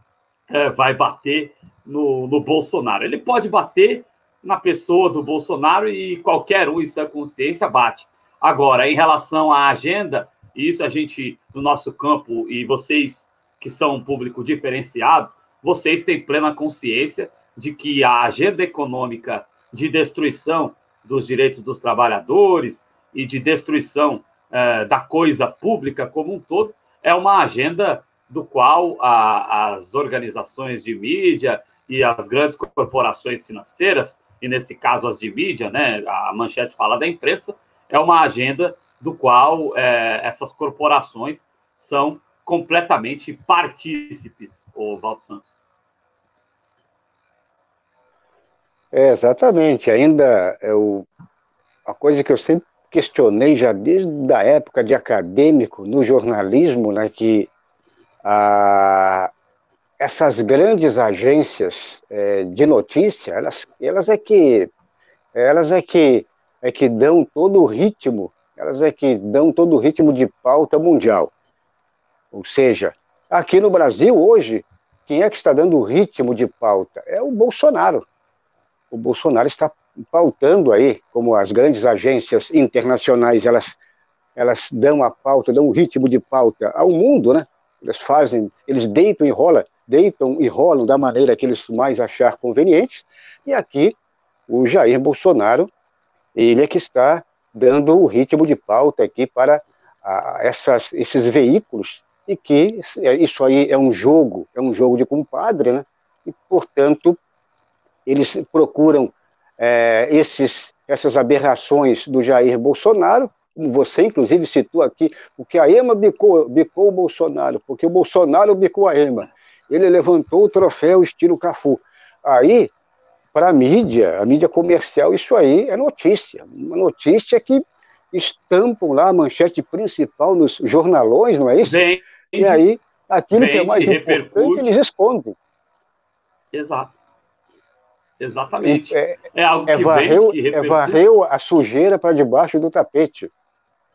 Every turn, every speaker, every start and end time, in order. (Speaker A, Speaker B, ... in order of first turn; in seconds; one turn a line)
Speaker A: 0.5-45.5
Speaker B: 48.9-51.1
Speaker B: 51.9-57.5
Speaker B: 58.2-59.3
Speaker B: 60.0-64.7
Speaker B: 65.3-71.3
Speaker B: 72.3-78.1
Speaker B: 78.9-83.8
Speaker B: 84.4-94.0
Speaker B: 94.5-95.7
Speaker B: 96.3-107.2
Speaker B: 108.1-122.7
Speaker B: 123.3-131.8
Speaker A: 131.6-132.7
Speaker B: 132.4-135.4
Speaker A: 133.3-134.7
Speaker A: 136.5-136.9
Speaker A: 138.2-141.0
Speaker B: 138.6-143.3